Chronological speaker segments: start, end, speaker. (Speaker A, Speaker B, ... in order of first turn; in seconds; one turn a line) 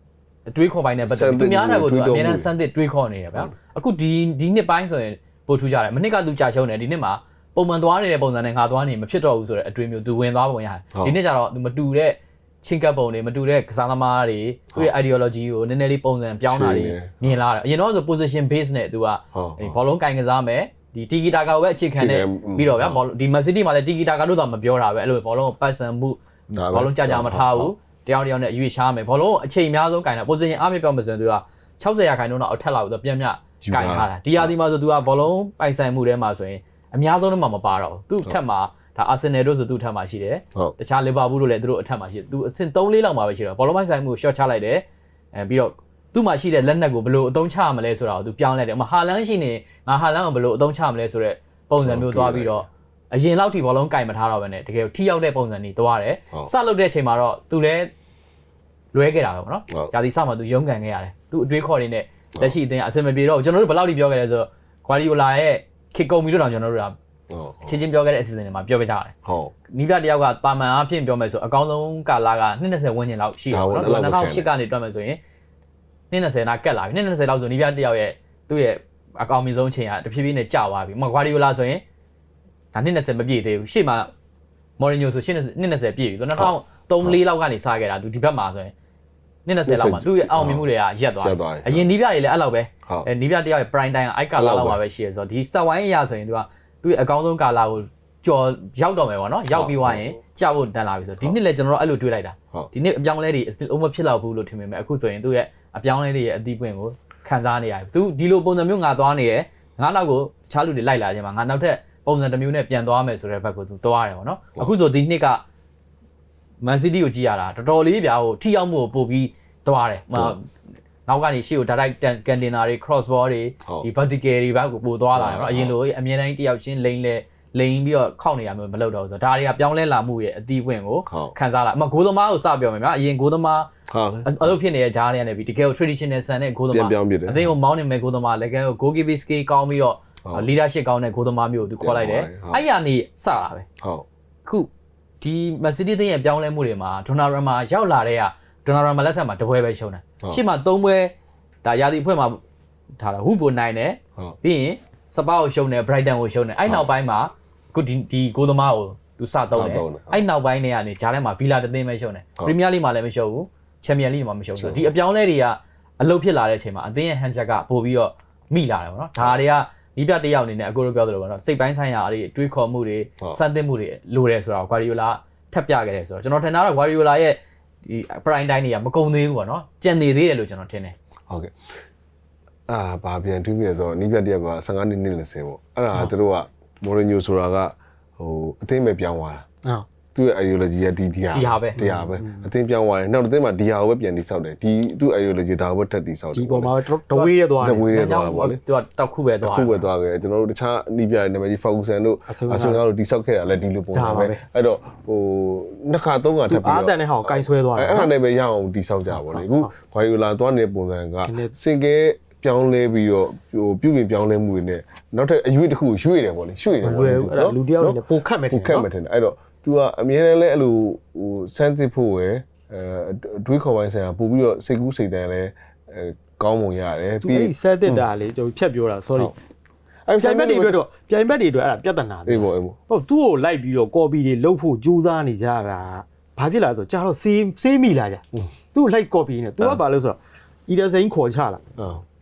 Speaker A: 0.5-57.9
Speaker B: 1.1-2.5
Speaker B: 16.5-17.3
Speaker B: 19.3-19.8
Speaker B: 21.9-23.0
Speaker B: 26.5-27.7
Speaker B: 33.6-34.5
Speaker B: 51.8-52.6
Speaker A: 58.9-67.0
Speaker B: 67.3-67.8
Speaker A: 67.6-69.1
Speaker B: 69.2-69.5
Speaker A: 69.7-75.2
Speaker B: 73.5-74.5
Speaker A: 76.1-81.8
Speaker A: 82.7-84.1
Speaker A: 84.8-88.7
Speaker A: 89.5-115.4
Speaker B: 89.7-90.6
Speaker B: 91.2-91.9
Speaker B: 94.3-94.8
Speaker B: 99.5-100.1
Speaker A: 116.6-120.5
Speaker A: 121.0-133.7
Speaker B: 125.1-125.7
Speaker B: 131.1-131.3
Speaker B: 133.9-134.5
Speaker A: 134.2-143.7
Speaker B: 136.7-137.5
Speaker B: 141.8-142.6
Speaker B: 143.8-144.1
Speaker A: 145.2-151.1
Speaker A: 151.6-152.4
Speaker A: 153.0-180.9
Speaker B: 159.5-160.2
Speaker B: 164.6-164.9
Speaker B: 169.2-169.4
Speaker B: 181.3-181.5
Speaker B: 182.7-189.4
Speaker B: 190.1-196.7
Speaker A: 191.3-191.8
Speaker C: 191.8-192.4
Speaker C: 196.3-197.8
Speaker B: 197.6-198.6
Speaker A: 197.8-199.8
Speaker B: 199.4-218.0
Speaker C: 202.3-202.8
Speaker C: 203.9-204.4
Speaker C: 206.5-208.1
Speaker C: 209.2-209.7
Speaker C: 211.3-211.5
Speaker C: 216.8-218.8
Speaker B: 218.5-228.0
Speaker C: 227.2-229.3
Speaker B: 230.1-230.8
Speaker C: 230.2-241.6
Speaker B: 232.3-232.8
Speaker B: 241.8-242.0